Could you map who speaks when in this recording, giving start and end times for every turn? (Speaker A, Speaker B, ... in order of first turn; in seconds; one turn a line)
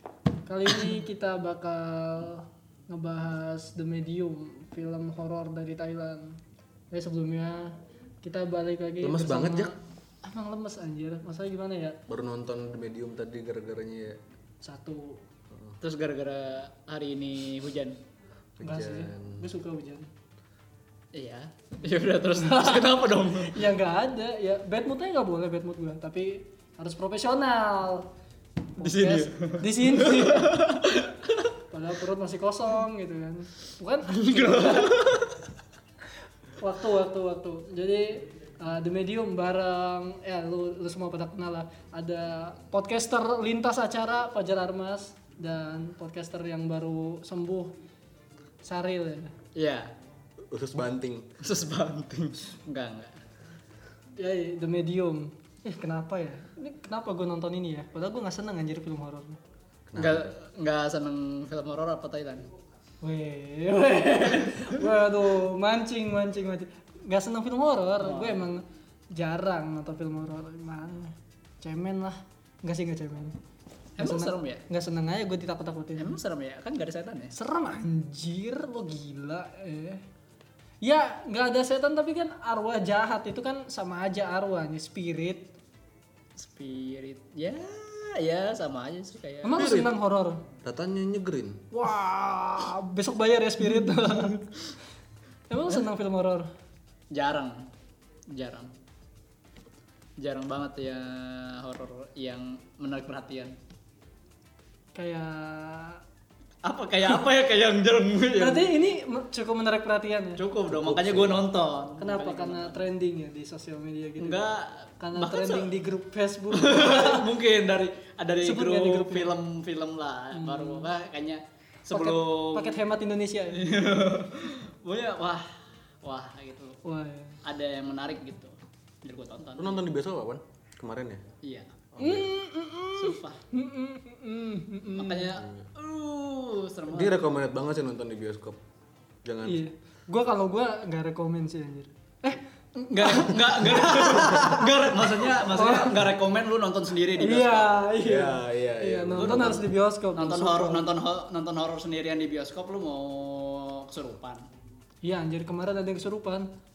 Speaker A: 0.5-6.4
Speaker A: 6.9-12.0
Speaker B: 9.0-9.7
Speaker B: 12.1-14.2
Speaker A: 14.6-15.2
Speaker B: 15.5-15.8
Speaker C: 15.8-18.0
Speaker B: 18.6-19.4
Speaker A: 18.6-20.1
Speaker C: 21.1-23.6
Speaker A: 22.3-28.1
Speaker A: 28.8-30.5
Speaker C: 28.8-31.5
Speaker A: 31.7-35.1
Speaker C: 34.2-35.4
Speaker A: 36.6-47.7
Speaker A: 48.6-49.3
Speaker C: 49.5-49.9
Speaker B: 50.5-51.4
Speaker C: 51.4-53.2
Speaker A: 54.2-59.4
Speaker B: 59.9-60.4
Speaker C: 60.0-62.5
Speaker A: 63.0-73.3
Speaker C: 68.0-68.4
Speaker C: 74.0-74.6
Speaker A: 74.0-76.2
Speaker C: 76.0-77.3
Speaker A: 77.3-80.0
Speaker A: 80.8-85.5
Speaker C: 86.4-89.7
Speaker A: 89.4-90.4
Speaker B: 89.5-89.9
Speaker B: 90.6-91.6
Speaker A: 91.7-94.5
Speaker A: 95.5-96.5
Speaker C: 97.1-97.7
Speaker C: 98.3-98.7
Speaker C: 100.2-103.6
Speaker A: 105.0-106.0
Speaker C: 106.6-108.7
Speaker A: 108.3-110.4
Speaker C: 110.4-112.8
Speaker B: 110.7-111.4
Speaker A: 112.0-114.5
Speaker C: 114.2-115.7
Speaker A: 115.0-117.3
Speaker C: 116.5-122.8
Speaker A: 118.4-119.4
Speaker A: 120.3-120.9
Speaker A: 121.9-123.7
Speaker C: 123.5-126.8
Speaker A: 126.8-127.4
Speaker C: 127.4-129.8
Speaker B: 129.6-131.2
Speaker C: 131.4-131.8
Speaker B: 131.9-132.3
Speaker A: 132.0-135.3
Speaker C: 133.0-133.4
Speaker C: 135.0-137.2
Speaker B: 135.4-135.7
Speaker B: 136.9-138.6
Speaker B: 139.2-139.6
Speaker A: 139.4-142.4
Speaker C: 142.8-147.8
Speaker A: 143.0-146.1
Speaker A: 147.2-150.9
Speaker B: 148.0-149.6
Speaker C: 149.2-154.5
Speaker A: 155.0-156.5